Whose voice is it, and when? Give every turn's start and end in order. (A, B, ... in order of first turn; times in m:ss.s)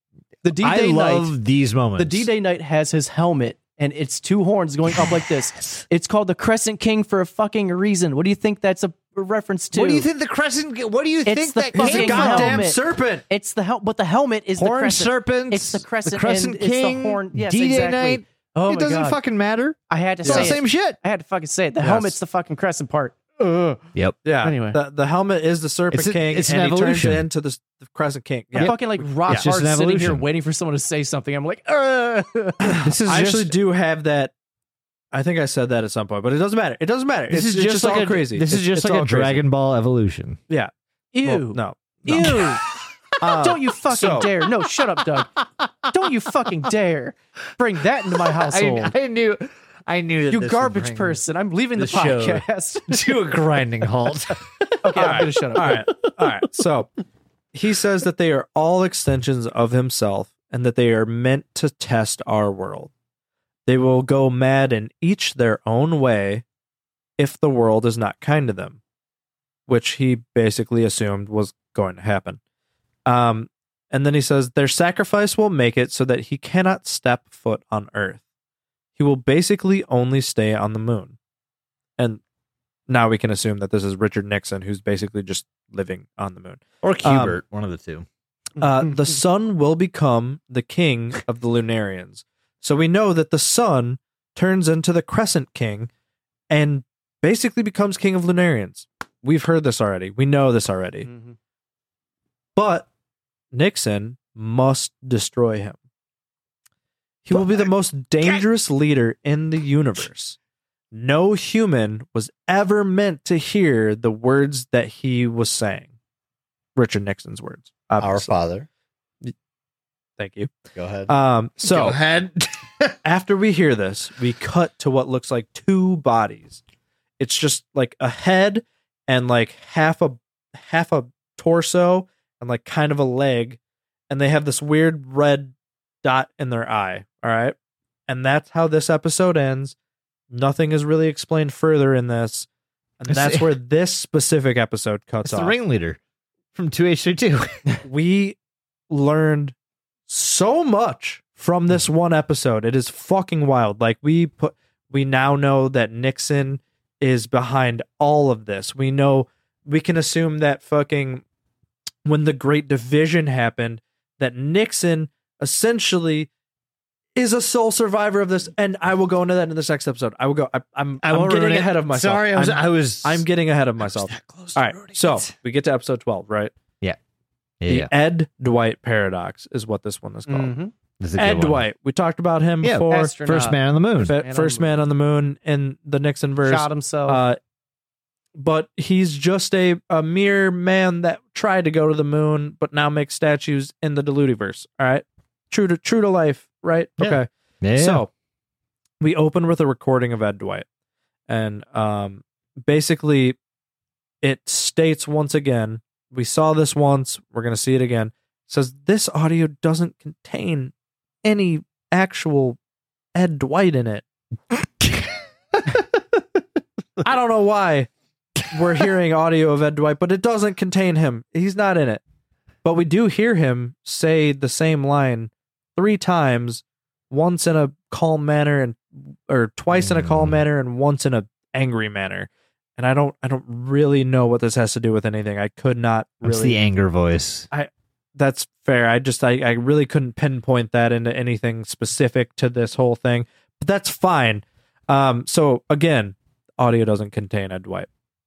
0:00.4-0:01.3 A
0:00.6-0:02.3 B
0:02.0-0:10.1 A
0:05.0-0:05.8 B
0:09.7-0:12.7 B
0:11.3-0:19.2 A
0:11.8-0:13.2 C
0:14.6-0:21.0 B
0:19.9-0:23.8 A
0:20.2-0:20.5 C
0:21.8-0:22.2 C
0:24.2-0:29.5 C
0:24.4-0:24.8 A
0:25.9-0:27.3 B
0:28.5-0:30.2 B
0:28.6-0:32.8 A
0:32.2-0:33.5 B
0:32.6-0:34.3 C
0:35.1-0:39.4 C
0:37.3-0:40.4 B
0:41.1-0:42.6 A
0:41.2-0:42.4 C
0:42.0-0:42.6 B
0:43.2-0:44.3 C
0:43.4-0:45.3 A
0:45.4-0:45.9 B
0:45.9-0:48.9 A
0:48.3-0:51.2 B
0:50.3-0:53.2 A
0:51.8-0:54.4 B
0:54.8-0:55.9 A
0:55.0-0:56.9 C
0:57.5-1:02.9 C
1:03.7-1:06.4 C
1:07.2-1:08.8 C
1:09.7-1:12.4 C
1:13.1-1:18.2 C
1:19.0-1:21.2 C
1:22.9-1:27.4 C
1:26.8-1:28.1 B
1:28.6-1:35.9 C
1:36.5-1:41.1 C
1:41.1-1:41.4 A
1:42.6-1:42.9 C
1:43.5-1:45.8 C
1:47.2-1:50.4 C
1:47.3-1:47.7 B
1:50.9-1:55.9 C
1:56.8-1:58.3 C
1:58.0-1:58.7 B
2:00.2-2:00.5 C
2:00.8-2:01.1 B
2:01.1-2:02.0 C
2:01.6-2:03.0 B
2:03.0-2:06.6 C
2:07.2-2:13.6 C
2:14.1-2:17.6 C
2:18.1-2:19.8 C
2:20.3-2:22.5 C
2:23.0-2:25.6 C
2:23.1-2:23.5 B
2:25.2-2:26.0 B
2:26.5-2:27.6 B
2:27.8-2:28.4 C
2:28.9-2:29.5 C
2:30.1-2:41.2 C
2:42.0-2:46.3 C
2:47.2-2:56.5 C
2:51.0-2:53.2 B
2:53.8-2:55.3 B
2:57.6-2:57.9 B
2:57.7-3:00.5 C
3:00.3-3:00.7 A
3:01.0-3:01.7 B
3:01.2-3:03.1 C
3:02.6-3:04.2 B
3:02.9-3:04.7 A
3:04.0-3:07.4 C
3:06.4-3:07.2 A
3:08.4-3:18.1 C
3:17.0-3:18.0 B
3:19.0-3:20.6 C
3:21.3-3:23.4 C
3:24.2-3:30.7 C
3:31.2-3:32.6 C
3:33.1-3:34.0 C
3:34.8-3:35.1 B
3:37.0-3:37.9 C
3:38.5-3:42.0 C
3:42.6-3:56.6 C
3:49.7-3:50.4 B
3:56.2-3:57.5 B
3:57.5-4:07.9 C